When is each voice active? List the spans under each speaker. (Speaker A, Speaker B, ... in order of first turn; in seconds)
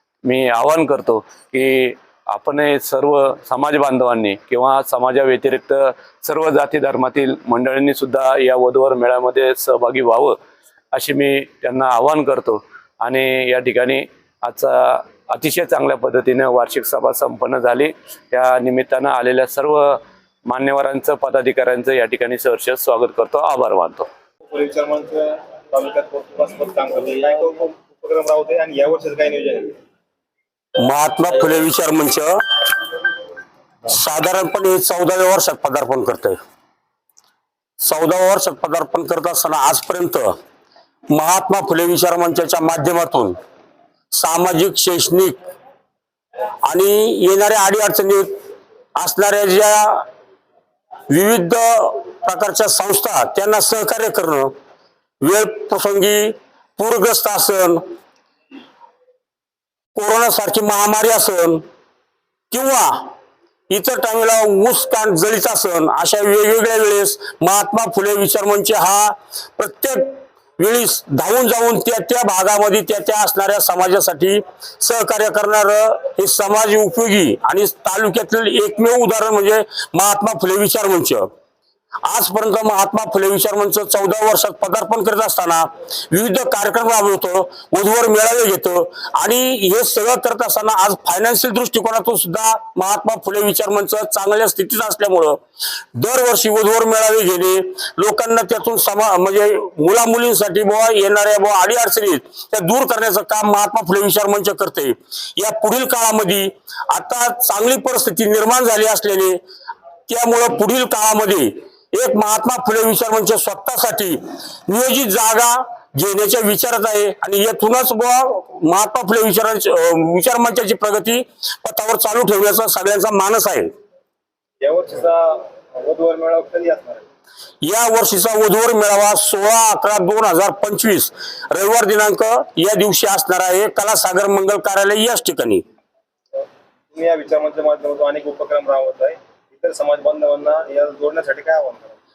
Speaker A: 0.2-10.4, 10.9-24.1
Speaker B: 24.5-29.8, 124.6-127.0, 136.4-142.0
Speaker C: 30.8-32.4, 33.9-36.4, 37.8-40.3, 41.1-43.4, 44.1-45.4, 46.6-48.3, 49.0-50.1, 51.1-54.5, 55.2-57.8, 60.0-61.6, 62.5-63.1, 63.7-81.3, 82.0-95.4, 96.0-109.4, 110.1-123.7, 127.6-135.6